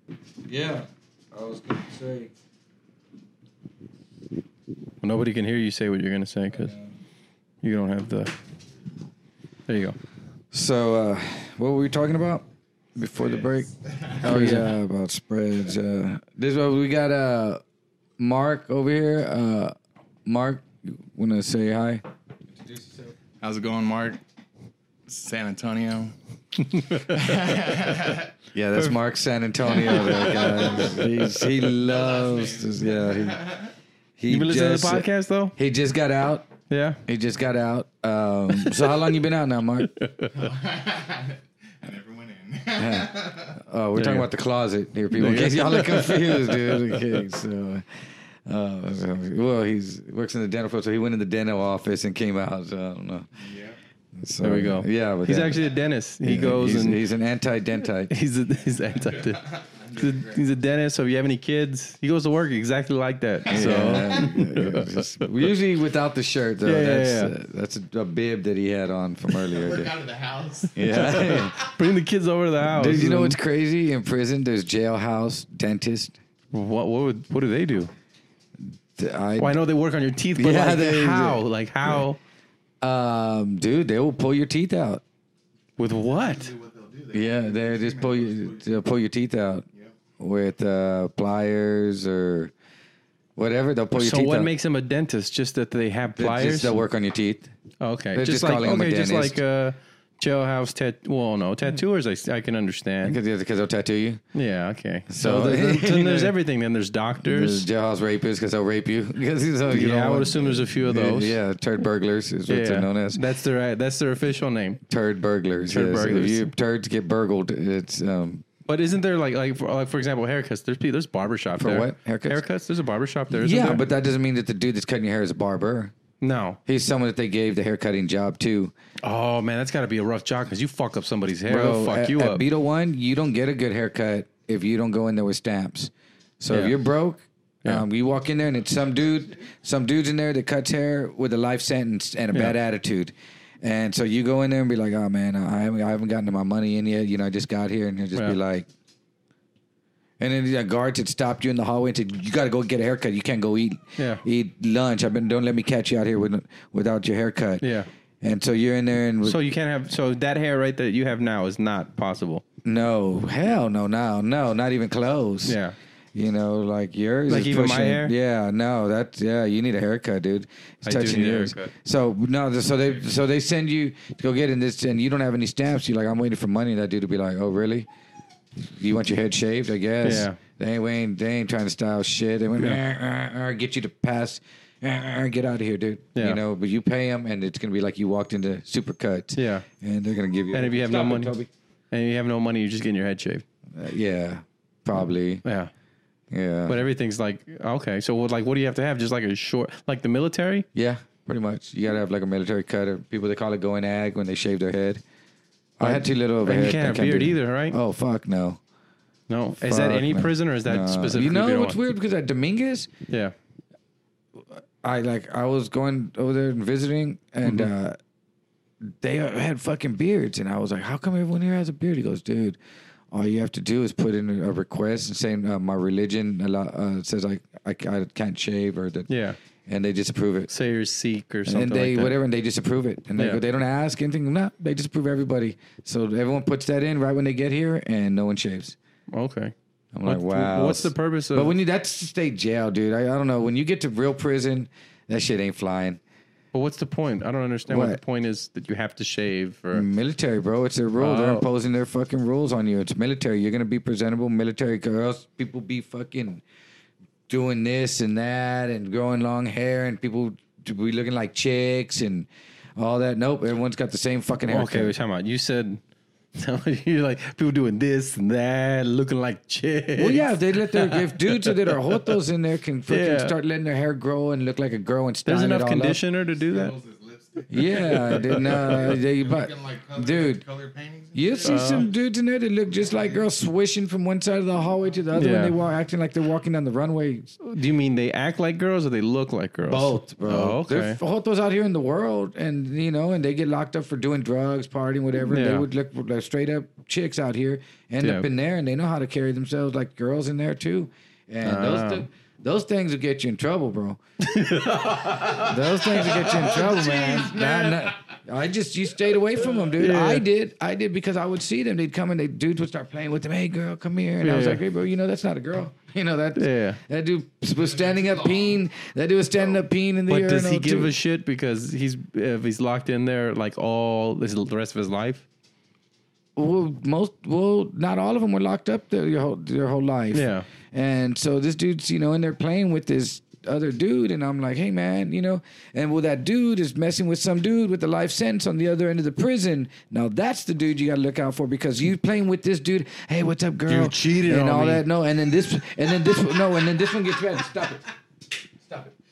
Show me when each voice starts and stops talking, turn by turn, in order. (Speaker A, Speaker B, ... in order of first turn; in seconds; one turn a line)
Speaker A: 0.5-2.3
Speaker B: 5.0-6.7
Speaker A: 6.5-6.9
Speaker B: 7.6-8.3
Speaker B: 9.7-10.0
Speaker A: 10.5-13.7
Speaker C: 13.2-14.6
Speaker A: 14.2-17.6
Speaker B: 14.2-14.7
Speaker A: 18.2-19.8
Speaker A: 20.3-22.0
Speaker A: 22.6-23.0
Speaker C: 23.4-24.2
Speaker C: 25.1-26.1
Speaker B: 26.6-27.4
Speaker C: 27.0-28.3
Speaker A: 28.5-33.5
Speaker B: 29.7-31.5
Speaker C: 29.8-33.7
Speaker A: 34.2-36.5
Speaker B: 34.3-35.5
Speaker B: 36.7-37.0
Speaker A: 37.1-39.9
Speaker B: 38.5-39.1
Speaker B: 39.8-40.5
Speaker C: 40.3-43.6
Speaker A: 42.8-47.9
Speaker B: 44.0-44.3
Speaker B: 45.1-47.1
Speaker A: 48.5-53.3
Speaker C: 53.4-53.8
Speaker A: 54.2-55.6
Speaker B: 54.4-57.1
Speaker A: 56.2-58.1
Speaker B: 58.0-65.3
Speaker C: 59.0-60.4
Speaker A: 63.5-70.0
Speaker C: 63.5-64.3
Speaker B: 66.6-67.3
Speaker C: 69.3-71.7
Speaker A: 70.7-71.6
Speaker B: 70.8-73.4
Speaker A: 72.7-76.2
Speaker B: 76.5-77.9
Speaker A: 79.0-79.6
Speaker B: 79.4-82.2
Speaker A: 80.4-82.0
Speaker A: 82.8-85.0
Speaker B: 85.8-86.5
Speaker C: 86.0-88.8
Speaker A: 87.1-89.7
Speaker A: 90.2-92.5
Speaker A: 93.4-94.5
Speaker B: 93.9-96.8
Speaker A: 96.2-97.5
Speaker B: 97.8-103.2
Speaker A: 98.1-99.4
Speaker A: 103.0-104.2
Speaker B: 104.3-107.7
Speaker A: 105.1-106.3
Speaker A: 107.2-113.2
Speaker B: 109.7-111.4
Speaker B: 112.5-114.8
Speaker A: 114.9-118.5
Speaker B: 115.7-116.5
Speaker B: 118.7-123.9
Speaker A: 121.6-122.4
Speaker A: 123.3-126.0
Speaker B: 126.2-126.6
Speaker A: 126.7-128.7
Speaker B: 129.0-132.4
Speaker A: 131.5-148.7
Speaker B: 136.5-136.8
Speaker A: 150.2-157.7
Speaker B: 154.0-154.2
Speaker B: 157.6-157.9
Speaker A: 158.2-159.4
Speaker B: 159.2-162.4
Speaker A: 162.7-165.6
Speaker B: 165.4-165.8
Speaker A: 166.2-177.9
Speaker B: 167.3-168.1
Speaker B: 170.8-171.7
Speaker A: 178.7-191.5
Speaker B: 180.0-180.4
Speaker B: 186.2-186.4
Speaker B: 189.3-189.7
Speaker B: 190.5-191.3
Speaker B: 191.9-193.4
Speaker A: 193.8-195.4
Speaker B: 195.4-195.7
Speaker A: 196.3-196.8
Speaker B: 196.7-200.7
Speaker A: 200.8-205.0
Speaker A: 205.8-208.6
Speaker B: 205.8-207.8
Speaker B: 209.3-211.8
Speaker A: 209.6-212.9
Speaker B: 213.1-213.3
Speaker A: 214.8-218.0
Speaker B: 217.4-217.7
Speaker A: 218.9-222.6
Speaker A: 223.1-229.1
Speaker B: 229.1-229.4
Speaker A: 229.7-230.5
Speaker B: 230.5-232.2
Speaker A: 231.5-238.8
Speaker B: 233.2-233.4
Speaker B: 239.1-239.5
Speaker A: 239.9-246.0
Speaker B: 240.1-241.6
Speaker B: 246.5-249.9
Speaker A: 247.7-248.0
Speaker A: 249.7-256.4
Speaker B: 251.0-251.5
Speaker A: 257.3-264.9
Speaker B: 264.5-265.8
Speaker B: 266.4-272.2
Speaker A: 270.0-276.0
Speaker B: 272.9-273.4
Speaker B: 275.2-276.8
Speaker C: 276.3-281.9
Speaker A: 277.5-280.4
Speaker B: 277.7-279.0
Speaker A: 281.1-287.4
Speaker B: 281.4-281.9
Speaker C: 282.8-283.2
Speaker B: 285.1-285.6
Speaker B: 287.4-291.0
Speaker A: 289.7-304.0
Speaker B: 295.3-295.7
Speaker B: 298.0-298.3
Speaker B: 301.4-302.1
Speaker B: 304.2-307.8
Speaker A: 305.1-320.9
Speaker C: 306.2-307.9
Speaker B: 309.7-310.3
Speaker B: 314.2-314.6
Speaker B: 316.4-316.8
Speaker C: 317.6-318.6
Speaker B: 320.1-325.2
Speaker A: 326.4-347.9
Speaker B: 330.1-330.5
Speaker B: 343.7-344.9
Speaker A: 348.7-348.9